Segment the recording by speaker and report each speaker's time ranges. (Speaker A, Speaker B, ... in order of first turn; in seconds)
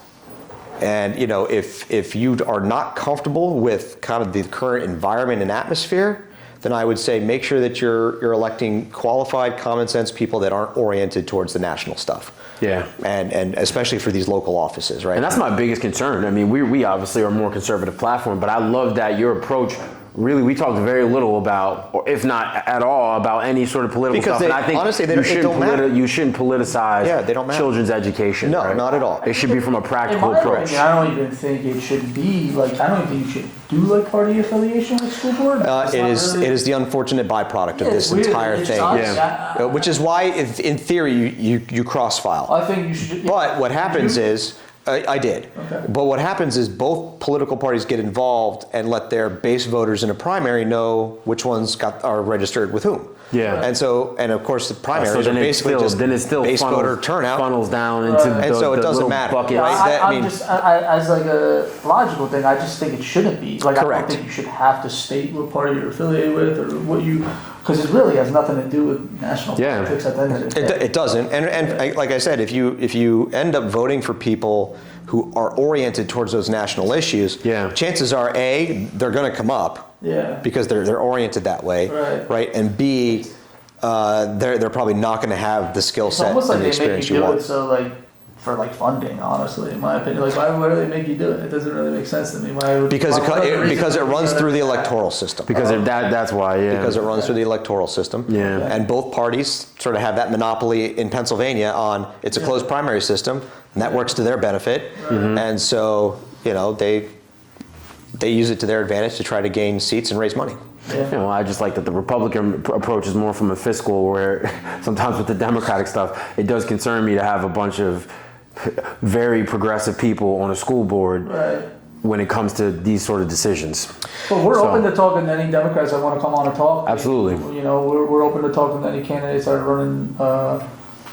Speaker A: 0.8-12.4, 13.0-15.4, 24.1-25.9, 27.0-27.7, 28.4-29.2, 30.4-30.8, 35.6-42.5, 43.2-57.5, 58.4-60.4, 63.7-64.2, 70.5-79.9, 80.4-83.3, 83.8-87.5, 92.9-95.9, 96.7-107.1, 108.2-110.6
Speaker B: 12.6-12.9, 15.1-30.8, 38.8-39.2, 53.3-53.7, 54.9-59.9, 69.6-69.9, 77.4-77.8, 95.5-97.0, 98.3-98.7, 105.1-105.4, 111.1-121.3, 122.0-123.9, 124.4-124.8, 126.9-127.4
Speaker C: 28.8-36.6, 37.7-39.9, 42.5-44.2, 45.6-45.8, 58.0-58.5, 59.5-70.8, 80.0-80.4, 81.9-82.3, 86.0-94.9, 98.4-98.8, 105.0-105.3, 121.2-121.7, 124.3-130.6